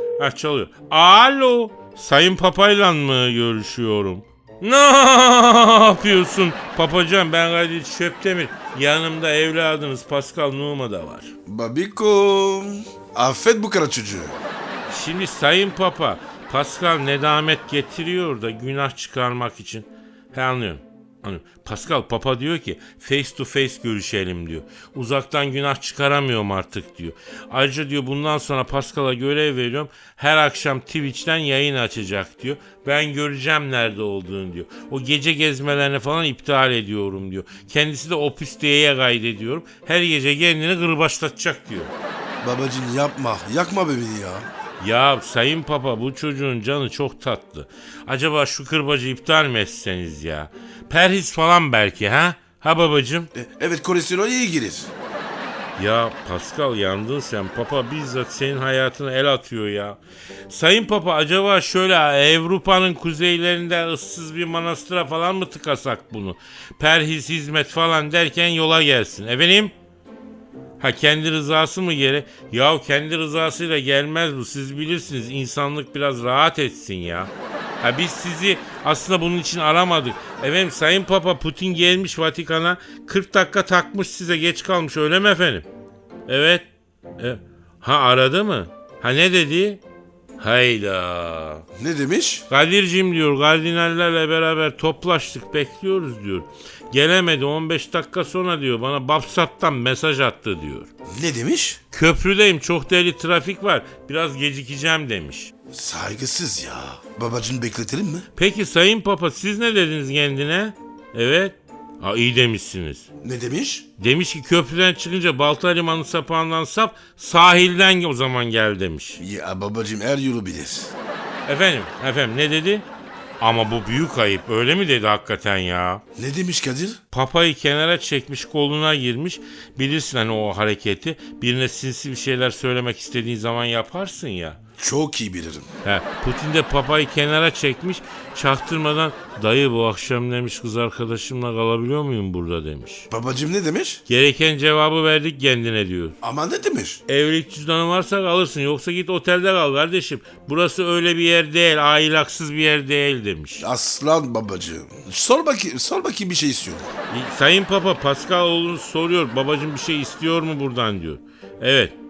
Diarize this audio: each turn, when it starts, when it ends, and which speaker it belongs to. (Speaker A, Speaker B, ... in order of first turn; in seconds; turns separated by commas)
Speaker A: 0.2-11.3, Speaker B: 11.5-14.4, Speaker A: 14.9-41.9, Speaker B: 42.4-44.5, Speaker A: 44.8-53.3, Speaker B: 53.3-54.9, Speaker A: 55.8-69.7, Speaker A: 70.8-85.7, Speaker A: 86.3-86.7, Speaker A: 87.2-89.8, Speaker A: 90.4-91.7, Speaker B: 91.8-92.5, Speaker A: 92.5-100.9, Speaker B: 101.1-101.8, Speaker A: 101.9-105.5, Speaker B: 105.7-108.3, Speaker A: 108.4-113.1, Speaker B: 113.2-113.8, Speaker A: 114.0-119.2, Speaker B: 119.2-120.9, Speaker A: 121.5-122.9, Speaker A: 123.4-126.0, Speaker B: 126.2-127.0, Speaker A: 127.1-134.6, Speaker B: 134.8-135.7, Speaker A: 135.8-143.1, Speaker B: 143.1-144.0, Speaker A: 144.1-146.2, Speaker B: 146.2-147.0, Speaker A: 147.1-153.7, Speaker B: 153.6-156.9, Speaker A: 157.1-162.0